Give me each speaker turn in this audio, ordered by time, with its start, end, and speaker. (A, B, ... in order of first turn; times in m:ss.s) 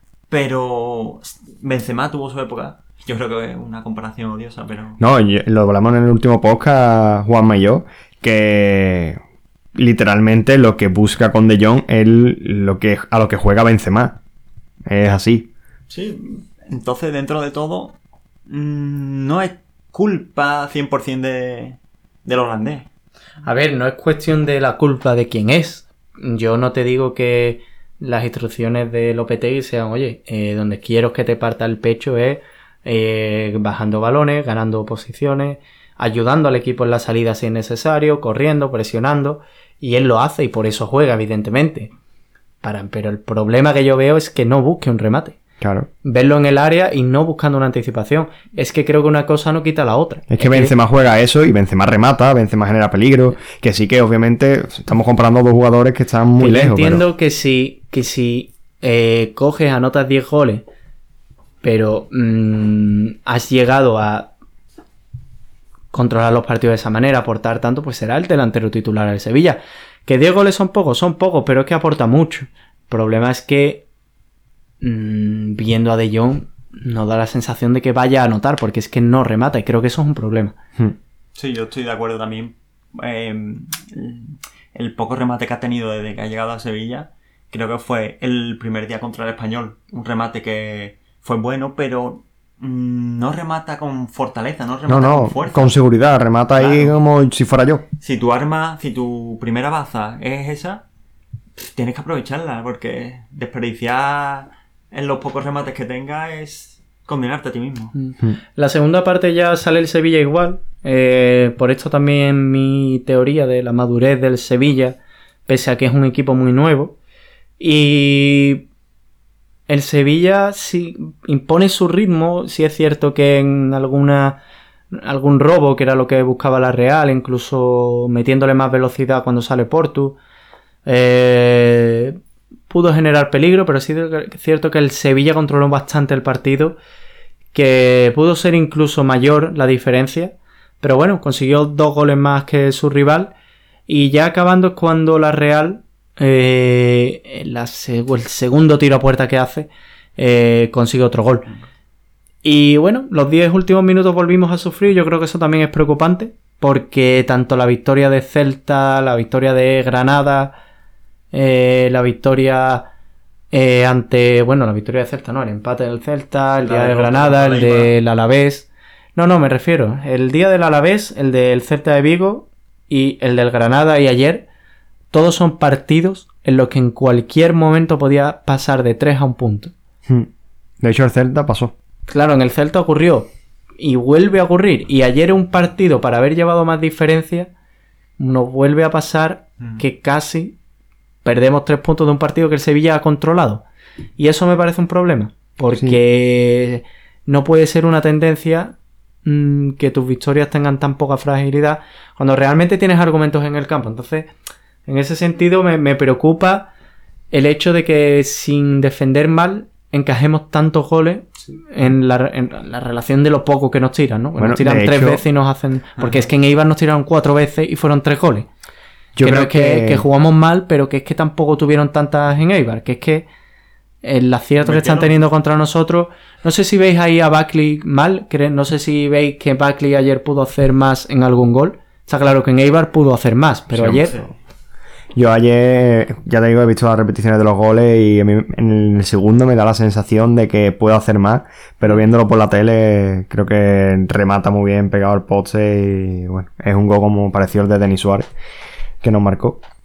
0:00.3-0:05.0 A
0:05.0-0:09.2 B
0:09.8-0:14.2 B
0:14.9-0:15.5 B
0:15.9-0:18.0 A
0:18.5-0:22.9 A
0:23.4-0:41.9 C
0:42.6-0:45.4 C
0:45.6-0:45.9 B
0:46.0-0:50.7 C
0:50.3-0:57.0 B
0:56.4-1:00.7 C
1:01.6-1:04.3 C
1:05.9-1:13.8 C
1:14.8-1:20.6 C
1:21.4-1:35.8 A
1:34.9-1:37.8 B
1:36.6-1:37.0 A
1:38.0-1:40.8 A
1:41.6-1:48.0 A
1:48.0-1:57.0 C
1:57.6-1:58.7 C
1:59.7-2:04.4 C
2:04.9-2:10.2 C
2:10.9-2:12.2 C
2:12.7-2:16.8 C
2:17.5-2:23.3 C
2:23.9-2:31.5 C
2:32.4-2:40.6 C
2:41.3-2:42.9 C
2:43.5-2:54.5 C
2:46.6-2:47.9 A
2:55.1-2:59.7 C
3:00.8-3:01.7 B
3:02.1-3:03.3 C
3:03.8-3:07.5 C
3:08.2-3:10.6 C
3:11.2-3:13.6 C
3:14.2-3:24.3 C
3:24.9-3:26.7 C
3:27.3-3:38.5 C
3:34.4-3:35.2 B
3:39.2-3:40.0 B
3:39.2-3:43.3 C
3:44.0-3:54.2 C
3:44.6-3:45.2 A
3:53.7-3:54.1 B
3:55.2-4:08.3 B
4:09.0-4:09.6 B